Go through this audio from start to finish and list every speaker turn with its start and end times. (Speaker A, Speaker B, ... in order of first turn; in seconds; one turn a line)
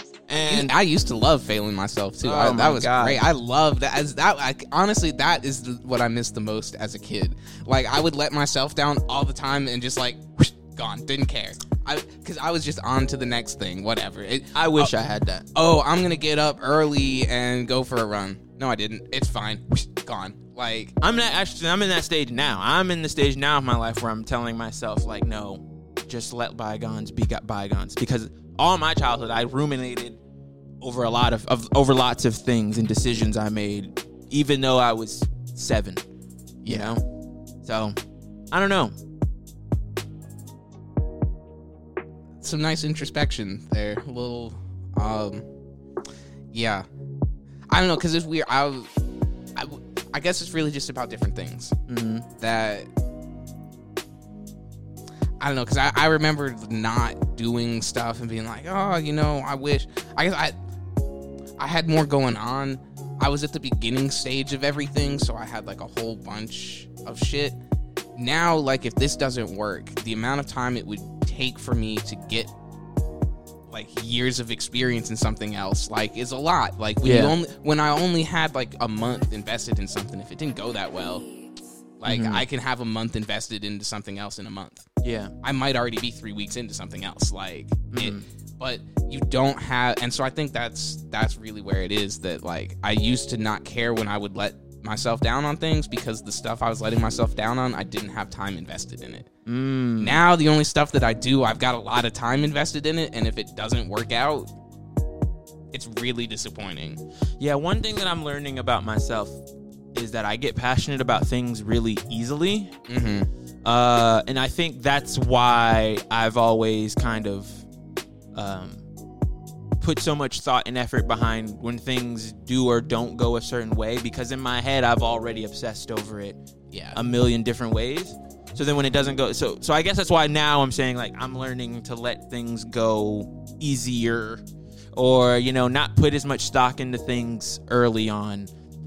Speaker A: 0.3-0.7
Speaker B: 0.4-14.9
Speaker A: 2.2-3.2
Speaker A: 14.6-15.5
Speaker B: 15.6-20.9
Speaker A: 21.0-30.2
Speaker A: 30.8-36.0
Speaker B: 36.6-37.0
Speaker A: 36.7-37.0
Speaker A: 37.6-38.0
Speaker A: 38.5-39.0
Speaker B: 42.4-45.5
Speaker B: 46.5-46.9
Speaker B: 47.7-48.9
Speaker B: 49.6-51.8
Speaker A: 51.9-52.3
Speaker B: 52.4-52.9
Speaker B: 55.4-60.5
Speaker B: 61.6-67.6
Speaker B: 68.2-72.5
Speaker B: 73.7-81.2
Speaker A: 77.0-77.4
Speaker B: 82.0-84.8
Speaker A: 82.0-82.5
Speaker A: 85.0-85.3
Speaker B: 85.4-99.3
Speaker A: 87.9-88.2
Speaker A: 99.5-100.2
Speaker B: 100.0-104.5
Speaker B: 105.7-107.0
Speaker A: 107.4-109.4
Speaker A: 109.9-112.7
Speaker B: 112.9-113.3
Speaker A: 113.6-117.6
Speaker A: 118.3-118.8
Speaker A: 119.8-126.4
Speaker B: 126.7-127.0
Speaker A: 127.0-134.4
Speaker A: 135.0-138.5